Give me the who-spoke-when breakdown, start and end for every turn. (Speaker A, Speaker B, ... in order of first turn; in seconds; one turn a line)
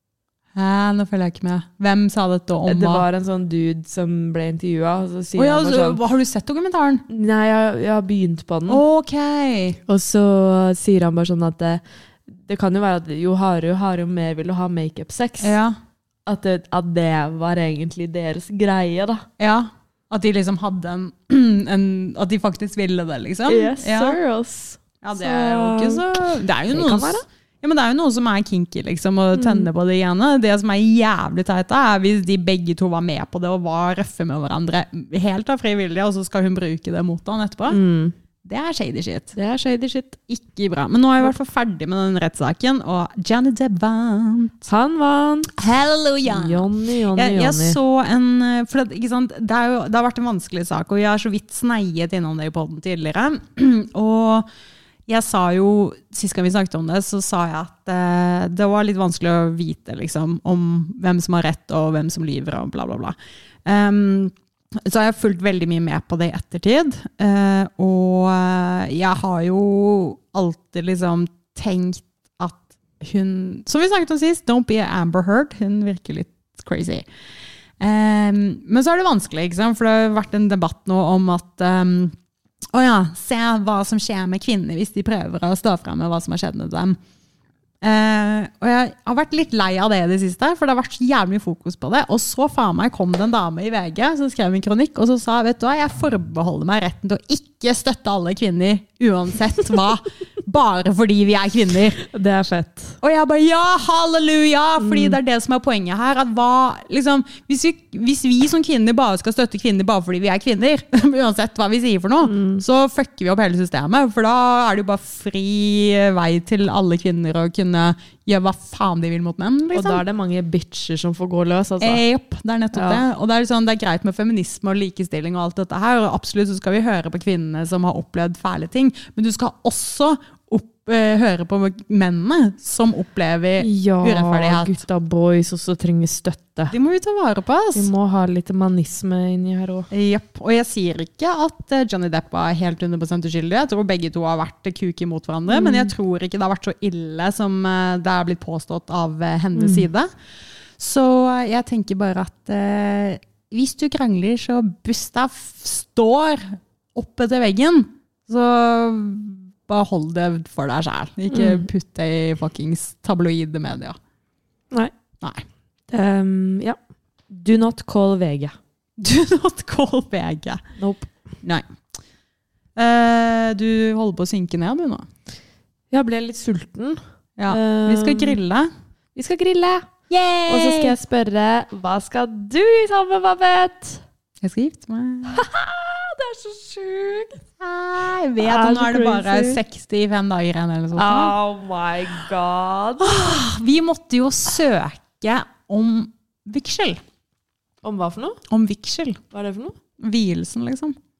Speaker A: 0.6-3.0
Speaker B: 2.6-6.0
Speaker A: 5.4-7.0
Speaker B: 7.1-8.8
Speaker A: 8.7-9.8
Speaker B: 9.9-15.6
Speaker A: 15.4-15.8
Speaker B: 16.2-19.2
Speaker A: 19.4-24.2
Speaker B: 23.4-27.2
Speaker A: 25.0-37.8
Speaker B: 29.3-29.7
Speaker B: 37.7-38.1
Speaker A: 38.4-39.3
Speaker B: 39.3-40.3
Speaker A: 40.3-44.7
Speaker B: 44.7-45.6
Speaker A: 45.5-54.5
Speaker B: 46.2-47.8
Speaker A: 55.1-64.3
Speaker A: 64.8-77.0
Speaker A: 77.8-82.1
Speaker A: 82.7-87.0
Speaker A: 87.8-102.0
Speaker B: 102.0-103.0
Speaker A: 103.0-120.0
Speaker B: 104.8-105.2
Speaker B: 112.2-112.6
Speaker B: 119.7-122.0
Speaker A: 121.8-134.8
Speaker B: 122.7-123.0
Speaker B: 133.6-136.7
Speaker A: 136.7-137.9
Speaker B: 137.7-139.9
Speaker A: 139.9-150.1
Speaker B: 145.5-145.9
Speaker B: 149.5-149.9
Speaker A: 150.8-164.0
Speaker B: 161.3-161.7
Speaker B: 165.9-166.8
Speaker B: 167.3-168.5
Speaker A: 169.0-170.6
Speaker B: 170.8-171.1
Speaker A: 172.8-175.1
Speaker B: 175.9-178.4
Speaker A: 177.4-178.7
Speaker B: 179.1-179.9
Speaker A: 180.1-180.9
Speaker B: 180.5-184.0
Speaker A: 184.4-185.4
Speaker B: 185.3-187.4
Speaker A: 187.6-191.3
Speaker B: 188.4-189.6
Speaker B: 190.9-193.4
Speaker A: 193.0-197.0
Speaker B: 197.8-198.4
Speaker A: 198.5-199.2
Speaker B: 199.3-199.8
Speaker A: 200.0-200.9